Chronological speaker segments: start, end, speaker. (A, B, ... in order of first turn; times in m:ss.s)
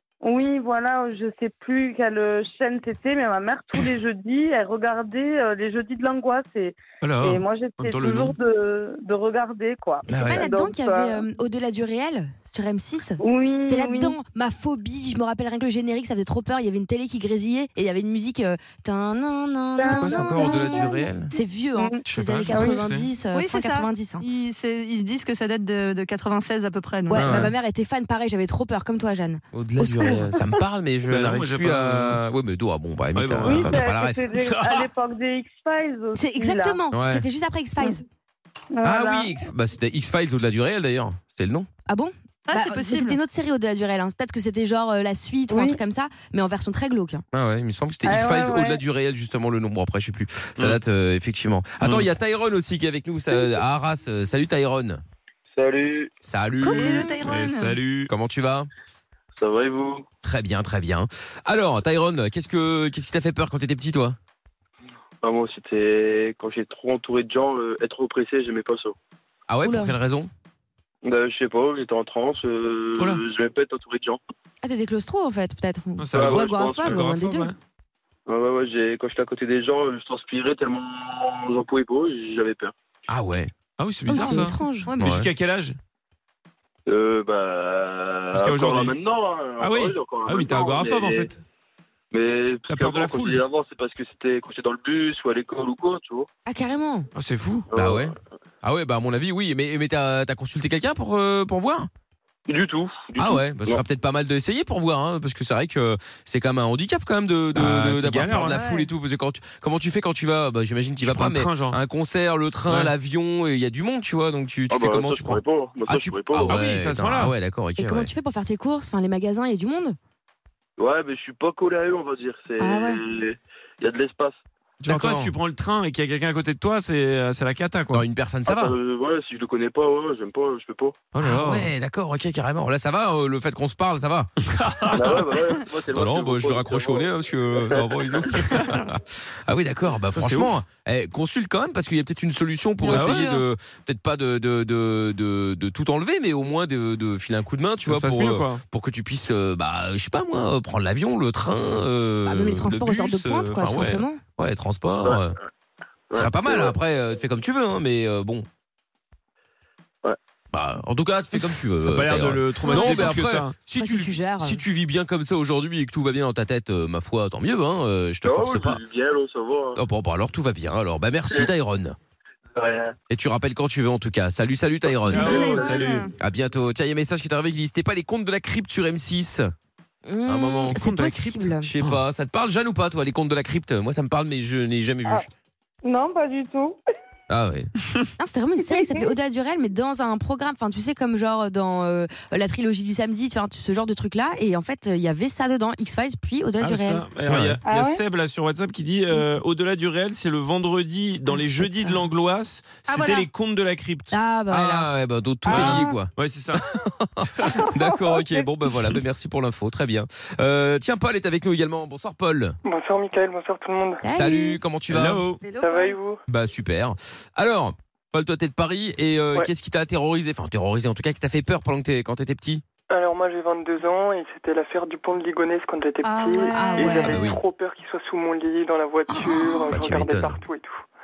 0:00.2-0:11.2 A
0:07.0-0:08.4 B
0:10.1-0:24.2 C
0:10.1-0:10.4 D
0:13.2-0:14.2 A
0:19.8-0:20.9 A
0:19.8-0:21.3 D
0:22.1-0:23.1 B
0:23.3-0:27.5 E
0:27.1-0:30.2 C
0:27.2-0:27.5 D
0:29.5-0:34.2 D
0:31.1-0:32.2 B
0:33.2-0:33.8 B
0:33.5-0:36.8 A
0:34.4-0:34.9 B
0:36.2-0:38.0 C
0:36.9-0:37.2 D
0:38.7-0:39.4 A
0:38.8-0:41.7 D
0:41.9-0:47.2 C
0:42.5-0:43.2 E
0:45.5-0:45.8 A
0:47.3-0:55.0 D
0:48.1-0:48.8 A
0:51.8-0:52.1 B
0:55.5-0:56.1 F
0:56.2-0:57.1 D
0:56.6-0:57.2 C
0:56.7-0:57.8 E
0:57.2-0:58.1 B
0:58.1-0:58.7 D
0:59.4-1:00.1 F
1:00.2-1:04.2 D
1:05.2-1:09.0 F
1:09.5-1:10.3 D
1:09.6-1:10.0 C
1:11.0-1:14.2 F
1:14.6-1:17.5 C
1:16.0-1:17.6 B
1:16.1-1:17.1 F
1:18.3-1:22.7 F
1:23.1-1:23.5 D
1:23.8-1:25.8 B
1:24.1-1:24.9 C
1:24.1-1:25.1 E
1:25.0-1:25.3 D
1:26.9-1:31.3 F
1:28.3-1:29.0 B
1:29.6-1:31.4 B
1:32.1-1:36.3 F
1:32.7-1:33.4 B
1:36.5-1:37.1 C
1:37.2-1:37.7 B
1:37.7-1:38.1 F
1:37.8-1:38.1 D
1:38.6-1:41.9 D
1:42.5-1:43.8 F
1:43.2-1:58.1 D
1:47.6-1:48.6 B
1:48.4-1:48.9 E
1:51.0-1:51.8 B
1:52.7-1:52.9 B
1:54.7-1:56.6 F
1:56.4-1:57.3 B
1:57.8-2:00.0 C
2:00.8-2:04.4 F
2:02.6-2:03.0 C
2:04.8-2:05.3 D
2:04.8-2:08.0 B
2:07.9-2:08.7 D
2:08.5-2:11.1 F
2:11.1-2:11.7 B
2:11.2-2:14.3 D
2:14.4-2:15.2 B
2:14.9-2:18.3 F
2:15.9-2:32.8 D
2:18.5-2:18.9 B
2:20.1-2:20.5 B
2:22.9-2:23.3 B
2:22.9-2:23.4 E
2:27.9-2:28.6 B
2:32.3-2:34.2 C
2:32.7-2:34.0 B
2:33.5-2:35.4 D
2:35.0-2:35.3 F
2:36.1-2:36.8 F
2:36.2-2:38.5 D
2:40.5-2:48.8 D
2:41.8-2:43.6 B
2:42.6-2:43.2 C
2:43.8-2:44.6 C
2:48.2-2:49.8 F
2:49.8-2:52.0 D
2:52.6-2:53.0 F
2:53.1-2:59.5 D
2:55.1-2:56.1 E
2:55.1-2:56.1 B
3:00.0-3:01.7 C
3:00.3-3:00.8 D
3:00.8-3:02.0 B
3:01.6-3:05.3 D
3:05.8-3:06.8 A
3:07.3-3:07.7 D
3:08.2-3:17.0 C
3:16.6-3:24.1 B
3:17.3-3:17.6 D
3:17.7-3:18.0 A
3:21.6-3:22.0 C
3:22.9-3:23.3 E
3:24.1-3:24.9 C
3:24.5-3:32.6 D
3:25.5-3:26.6 B
3:25.5-3:25.8 E
3:27.4-3:27.7 B
3:32.6-3:34.0 G
3:34.0-3:34.6 C
3:34.1-3:35.2 D
3:34.9-3:35.4 B
3:35.4-3:36.0 E
3:35.6-3:36.2 G
3:36.3-3:42.6 D
3:42.9-3:50.8 G
3:46.0-3:47.3 E
3:46.8-3:47.4 D
3:49.1-3:49.9 E
3:49.7-3:50.4 D